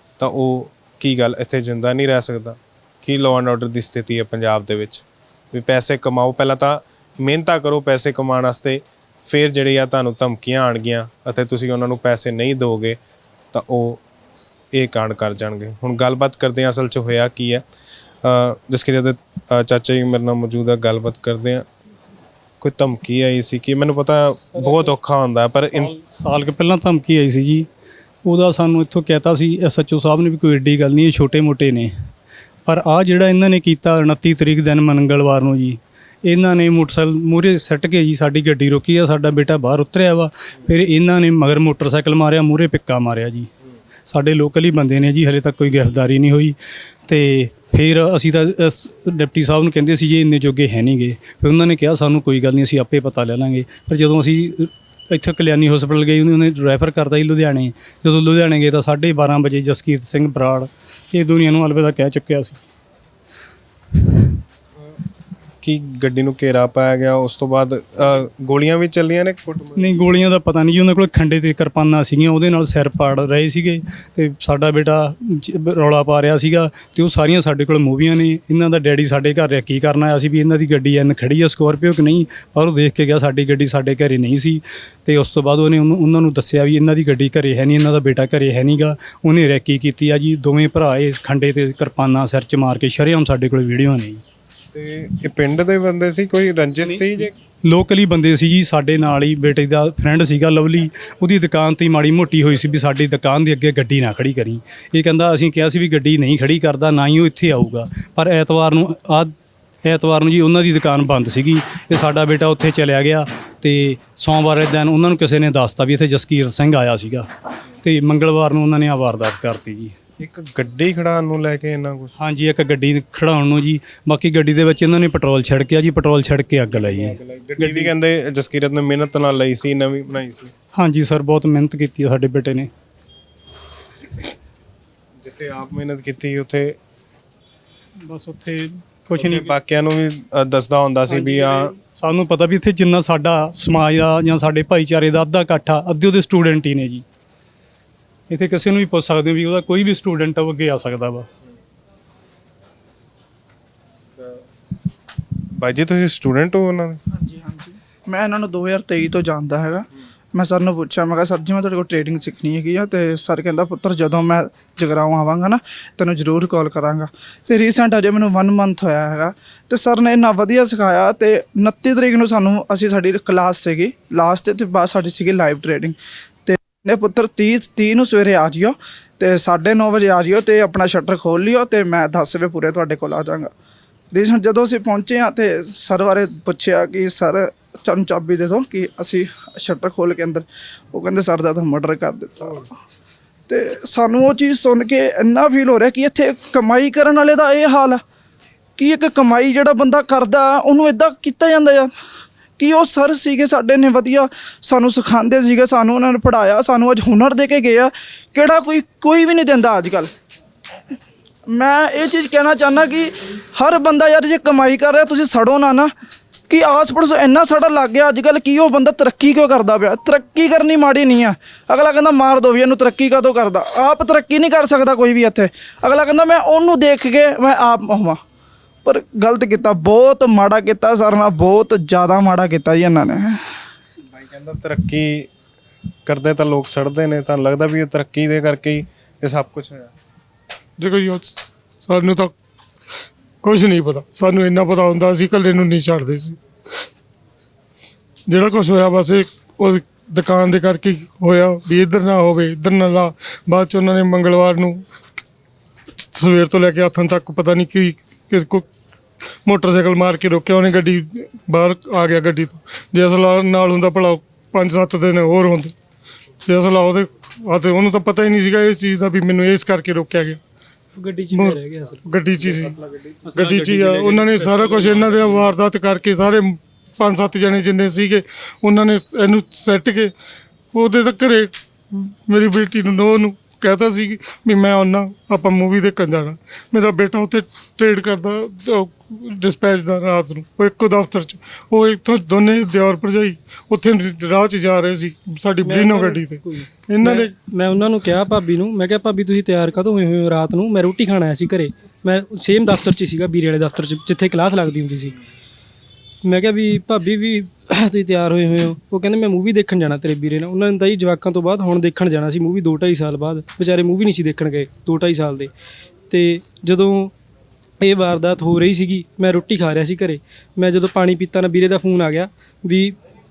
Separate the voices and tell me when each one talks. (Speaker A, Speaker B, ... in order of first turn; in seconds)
Speaker A: 0.2-13.0, 13.5-14.0, 14.7-17.6, 18.2-21.7, 22.6-26.0, 65.6-70.0, 94.7-97.3, 120.2-122.1, 126.7-130.5, 135.2-136.8, 139.2-141.7, 155.6-157.0, 234.1-235.3, 236.1-239.9
Speaker B: 25.9-27.7, 28.2-31.9, 32.7-43.5, 44.1-46.6, 47.1-62.6, 69.8-94.2, 96.8-117.3, 117.8-120.0, 122.2-128.0, 130.7-132.7, 138.0-139.6, 141.9-147.0, 148.3-151.3, 273.2-275.5
Speaker C: 141.2-141.7, 271.0-272.0, 295.6-305.1, 306.2-315.5, 316.1-317.1, 317.8-323.0
Speaker D: 157.1-183.5, 184.1-192.7, 193.5-198.0, 198.8-201.9, 202.6-210.1, 211.5-215.9, 216.5-228.2, 228.8-233.6
Speaker E: 240.8-242.3, 243.4-246.4, 248.3-254.8, 256.0-258.7, 259.4-265.7, 266.5-270.4, 271.3-272.8, 273.3-280.1, 280.7-297.3